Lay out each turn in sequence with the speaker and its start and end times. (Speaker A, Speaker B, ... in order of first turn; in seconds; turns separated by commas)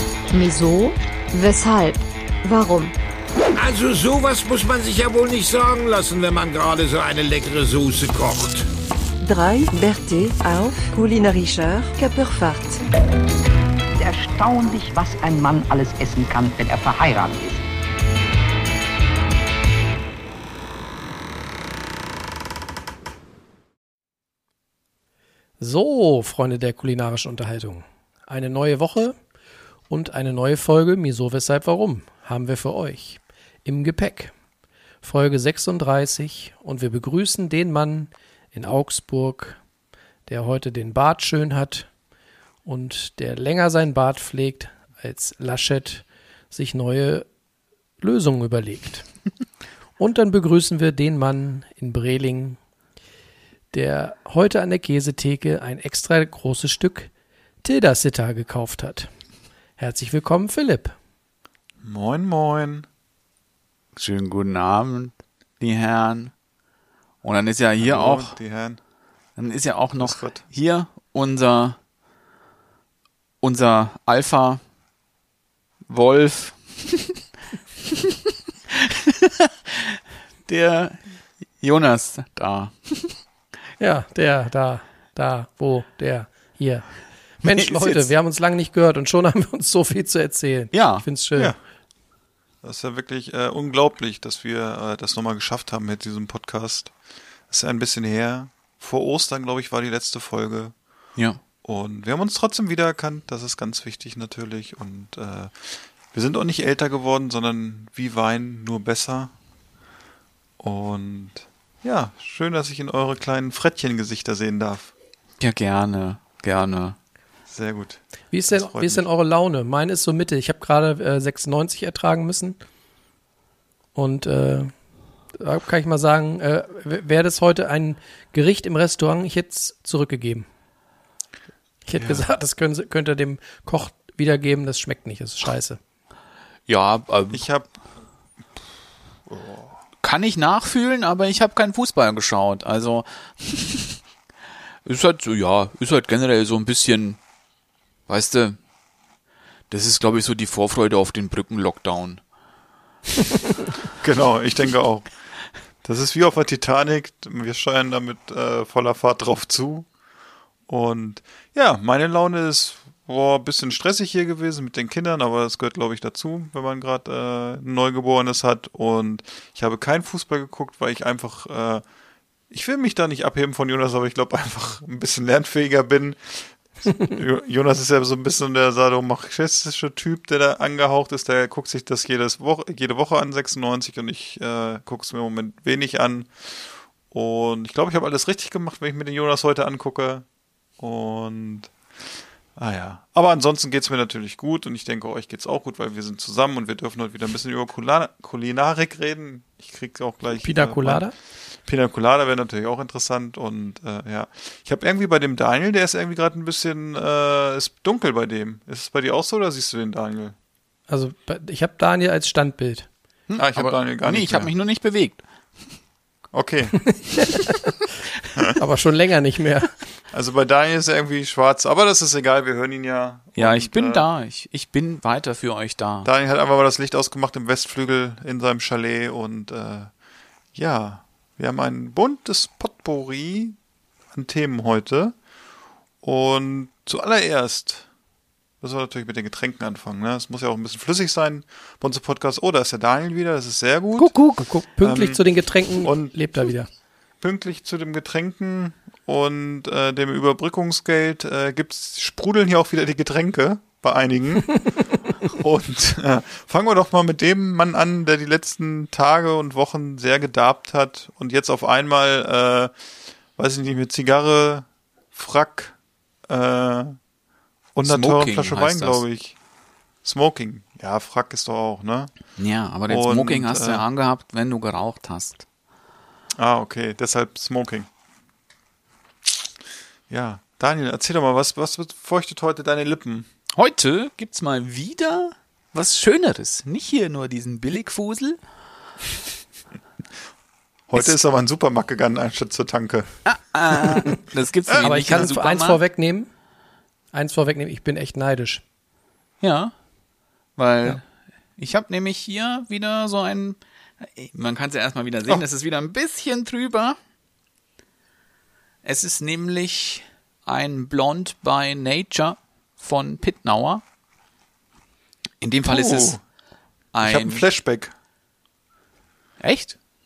Speaker A: 0.3-3.0, Speaker B: 3.5-8.7, Speaker C: 9.2-12.8, Speaker D: 14.0-17.6, Speaker E: 25.6-29.2, Speaker E: 29.9-34.3, Speaker E: 35.0-39.6, Speaker E: 40.3-41.9, Speaker E: 42.6-47.3, Speaker E: 48.0-49.1, Speaker E: 50.0-52.6, Speaker E: 53.7-57.1, Speaker E: 57.6-59.1, Speaker E: 59.8-61.0, Speaker F: 61.8-62.9, Speaker G: 64.0-66.3, Speaker G: 67.2-68.4, Speaker F: 67.8-68.8, Speaker G: 69.4-71.8, Speaker F: 70.0-70.4, Speaker G: 73.4-74.6, Speaker G: 75.9-77.1, Speaker G: 78.7-83.2, Speaker E: 83.8-86.9, Speaker E: 87.4-91.5, Speaker G: 87.5-88.1, Speaker G: 90.7-91.1, Speaker F: 92.6-96.9, Speaker F: 97.5-100.8, Speaker F: 101.6-109.3, Speaker F: 110.6-114.9, Speaker G: 115.4-117.0, Speaker F: 117.5-119.0, Speaker E: 118.3-122.6, Speaker E: 124.0-124.7, Speaker E: 125.3-130.5, Speaker E: 131.9-135.8, Speaker F: 132.0-132.2, Speaker G: 136.7-137.4, Speaker F: 137.3-137.7, Speaker F: 139.3-139.7, Speaker G: 140.0-144.0, Speaker G: 144.8-147.2, Speaker G: 148.1-148.6, Speaker G: 149.7-152.2, Speaker F: 154.0-155.1, Speaker F: 155.8-159.9, Speaker F: 160.7-171.8, Speaker F: 172.5-190.3, Speaker F: 190.8-191.7, Speaker F: 192.6-201.1, Speaker E: 200.4-201.1, Speaker F: 201.7-210.3, Speaker E: 210.9-212.9, Speaker G: 213.3-215.2, Speaker F: 213.4-214.5, Speaker F: 216.3-216.9, Speaker E: 218.6-219.7, Speaker F: 220.1-224.0, Speaker G: 223.4-226.1, Speaker F: 226.0-229.9, Speaker F: 230.5-233.6, Speaker F: 234.1-235.2, Speaker F: 236.0-237.9, Speaker F: 238.6-244.1, Speaker E: 244.0-246.7, Speaker F: 244.8-245.2, Speaker F: 245.8-246.2, Speaker F: 247.2-254.6, Speaker F: 255.3-262.7, Speaker F: 263.4-265.8, Speaker F: 266.3-267.0, Speaker F: 267.8-269.4, Speaker G: 267.9-269.0, Speaker F: 270.0-272.1, Speaker G: 272.4-275.4, Speaker F: 272.9-273.9, Speaker F: 276.4-277.9, Speaker F: 280.1-283.3, Speaker G: 283.6-288.4, Speaker F: 290.9-293.1, Speaker G: 293.2-295.8, Speaker F: 294.7-295.3, Speaker E: 294.8-296.3, Speaker E: 297.1-298.6, Speaker G: 299.4-299.7, Speaker G: 300.6-301.0, Speaker G: 301.6-307.0, Speaker G: 308.8-313.8, Speaker G: 315.4-316.2, Speaker F: 315.7-316.2, Speaker G: 316.9-317.5, Speaker F: 317.0-317.9, Speaker G: 319.4-319.8